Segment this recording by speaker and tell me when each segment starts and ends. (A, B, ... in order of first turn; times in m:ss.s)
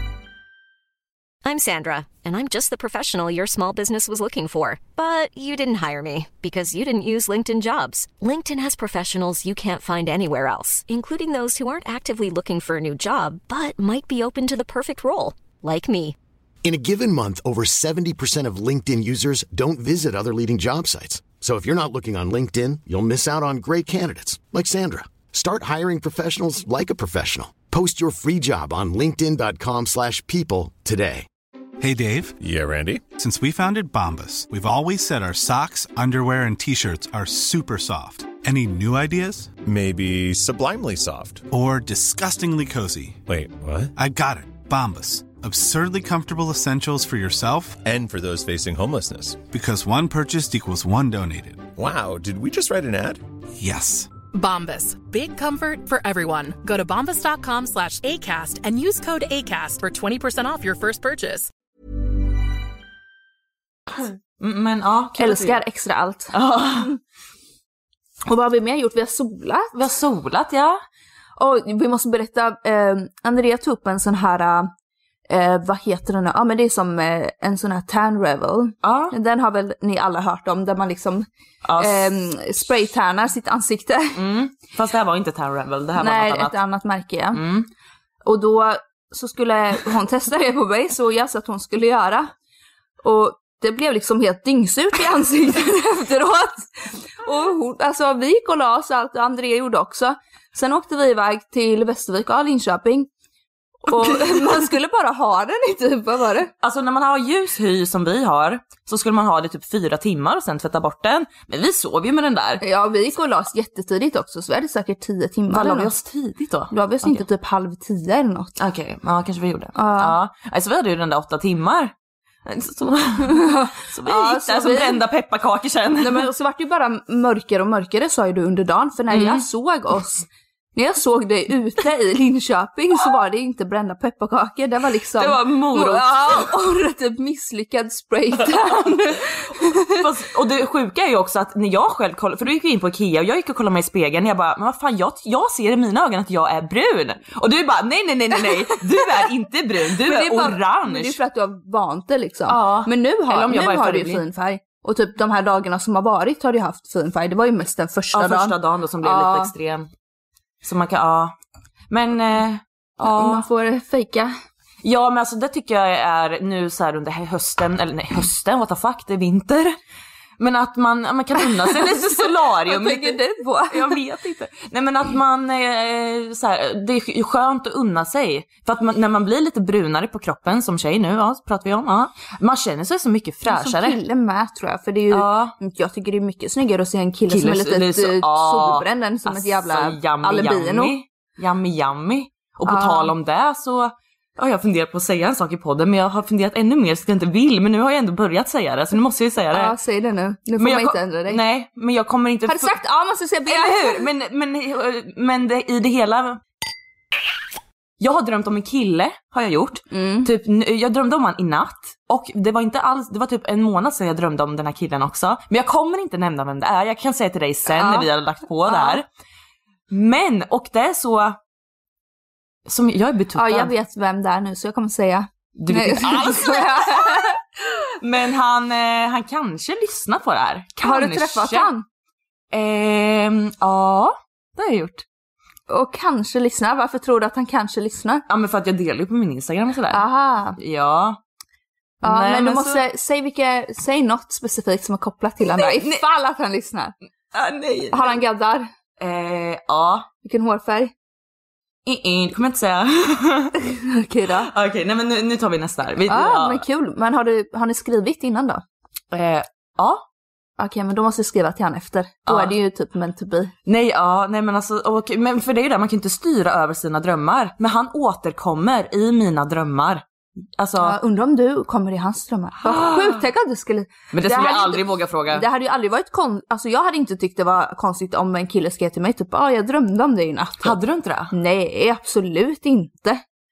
0:01.4-0:16.2 A
0:16.6-0:31.2 B
0:31.8-0:32.4 C
0:32.4-0:33.0 D
0:33.1-0:39.6 C
0:39.6-0:41.4 D
0:41.5-0:43.2 C
0:43.3-0:43.9 D
0:44.0-0:47.8 C
0:47.8-0:49.4 D
0:49.5-0:51.7 C
0:51.8-0:53.2 D
0:53.6-0:54.1 C
0:54.3-1:01.5 E
1:04.0-1:05.6 F
1:05.2-1:07.0 G
1:06.3-1:06.9 F
1:08.3-1:09.7 G
1:09.7-1:10.8 F
1:11.4-1:14.7 G
1:15.3-1:21.3 G
1:18.8-1:19.1 F
1:21.6-1:22.1 F
1:21.8-1:24.2 G
1:24.1-1:26.6 F
1:26.0-1:27.4 G
1:27.3-1:27.7 F
1:28.2-1:32.3 G
1:33.0-1:43.1 G
1:43.9-1:46.5 G
1:43.9-1:44.4 F
1:46.6-1:52.6 F
1:52.6-1:55.9 G
1:55.5-1:57.2 F
1:56.7-1:58.6 G
1:58.6-2:01.9 F
1:59.8-2:00.2 G
2:02.4-2:06.3 F
2:03.2-2:05.0 G
2:06.0-2:20.0 G
2:09.1-2:09.4 F
2:15.2-2:16.5 F
2:19.9-2:31.2 F
2:30.0-2:39.5 G
2:32.5-2:34.2 F
2:38.1-2:39.9 F
2:40.6-2:41.3 F
2:41.9-2:43.4 F
2:43.0-2:44.3 G
2:44.8-2:49.8 F
2:50.4-3:04.0 F
2:51.6-2:54.0 G
3:03.5-3:11.0 G
3:05.1-3:05.5 F
3:07.3-3:19.7 F
3:12.7-3:13.1 G
3:19.5-3:21.4 G
3:20.6-3:22.7 F
3:22.5-3:24.0 G
3:23.5-3:26.4 F
3:28.0-3:39.0 F
3:29.9-3:30.3 G
3:37.7-3:38.1 G
3:38.6-3:39.0 G
3:39.9-3:41.4 F
3:42.7-3:43.7 F
3:43.4-3:47.4 G
3:45.6-3:47.4 F
3:48.0-3:51.7 F
3:50.8-3:51.8 G
3:52.5-3:55.0 F
3:55.7-3:58.2 G
3:58.3-4:00.0 F
3:59.9-4:00.6 G
4:00.6-4:01.2 F
4:02.0-4:02.8 F
4:02.0-4:06.9 G
4:05.6-4:06.0 F
4:07.3-4:08.2 F
4:07.9-4:08.7 G
4:09.0-4:10.1 F
4:10.2-4:10.9 G
4:11.8-4:13.5 F
4:13.7-4:14.5 G
4:14.4-4:16.6 F
4:16.0-4:18.6 G
4:19.1-4:20.0 F
4:20.6-4:23.5 G
4:22.3-4:22.5 F
4:23.6-4:30.0 F
4:30.5-4:31.0 F
4:30.8-4:40.8 G
4:32.6-4:33.2 F
4:34.1-4:35.4 F
4:40.6-4:41.3 F
4:41.3-4:43.2 G